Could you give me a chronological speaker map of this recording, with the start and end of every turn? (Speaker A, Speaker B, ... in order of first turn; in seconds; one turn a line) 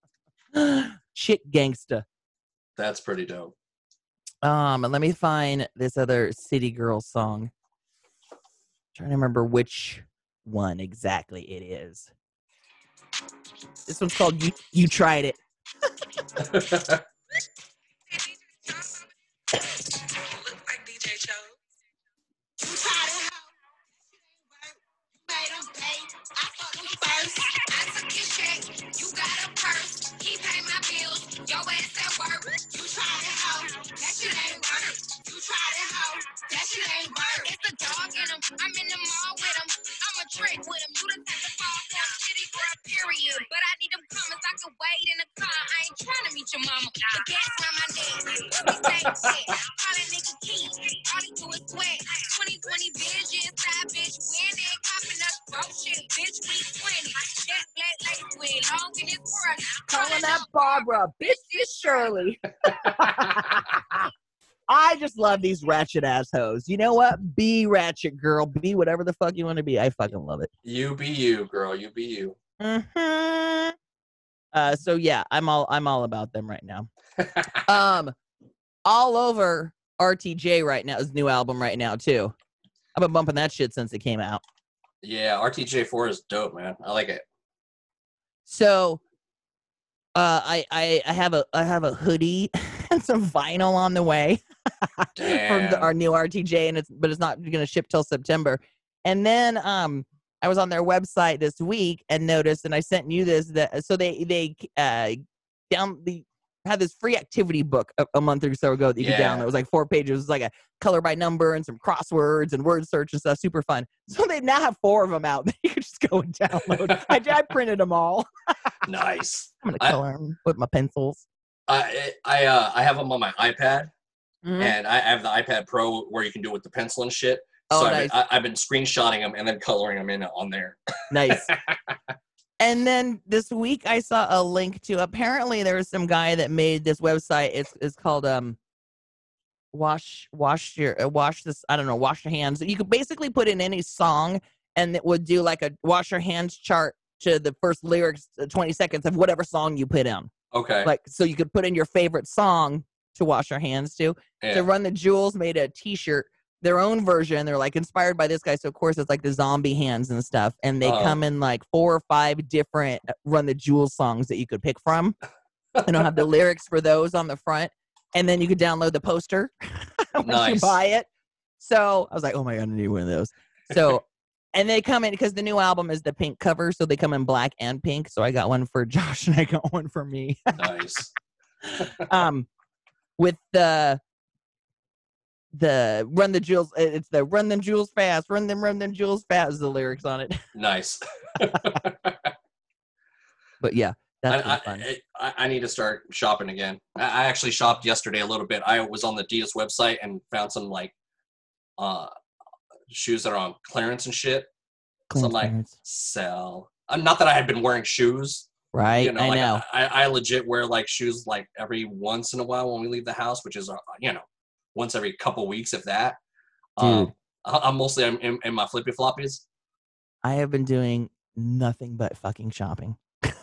Speaker A: 0.5-2.0
Speaker B: 2.8-3.5
Speaker A: 4.4-7.5
Speaker A: 8.9-12.1
Speaker A: 13.9-15.4
Speaker B: 16.4-17.0
Speaker C: 20.9-21.2
Speaker C: 26.6-36.1
Speaker A: 36.6-37.3
Speaker C: 36.6-62.2
Speaker A: 59.9-64.1
Speaker B: 62.7-63.3
Speaker A: 64.7-70.5
Speaker B: 70.7-72.4
Speaker A: 72.6-73.8
Speaker A: 74.5-76.9
Speaker B: 77.2-77.6
Speaker A: 77.7-78.2
Speaker A: 78.9-82.3
Speaker A: 83.0-84.4
Speaker B: 85.0-87.2
Speaker A: 88.5-89.0
Speaker A: 90.2-94.4
Speaker A: 95.0-118.3
Speaker B: 95.2-95.9
Speaker B: 109.0-109.5
Speaker B: 116.7-117.2
Speaker B: 118.8-120.0
Speaker A: 119.6-121.2
Speaker B: 121.7-123.9
Speaker A: 124.4-124.8
Speaker B: 124.6-132.0
Speaker A: 127.7-128.1
Speaker A: 131.1-131.5
Speaker A: 132.6-138.6
Speaker A: 139.7-150.3
Speaker B: 150.5-150.9
Speaker A: 150.8-165.2
Speaker B: 154.4-154.7
Speaker B: 160.8-161.2
Speaker B: 165.8-166.0
Speaker A: 165.8-171.1
Speaker B: 170.2-170.8
Speaker A: 171.6-180.6
Speaker B: 180.6-181.1
Speaker A: 181.7-182.5
Speaker A: 183.2-184.0
Speaker A: 185.5-190.4
Speaker B: 190.6-192.3
Speaker A: 193.6-194.9
Speaker B: 194.3-200.9
Speaker B: 201.8-202.1
Speaker B: 202.9-204.5
Speaker A: 205.1-205.7
Speaker B: 205.1-216.2
Speaker A: 208.7-209.6
Speaker B: 216.8-219.4
Speaker A: 216.8-217.1
Speaker A: 220.2-223.0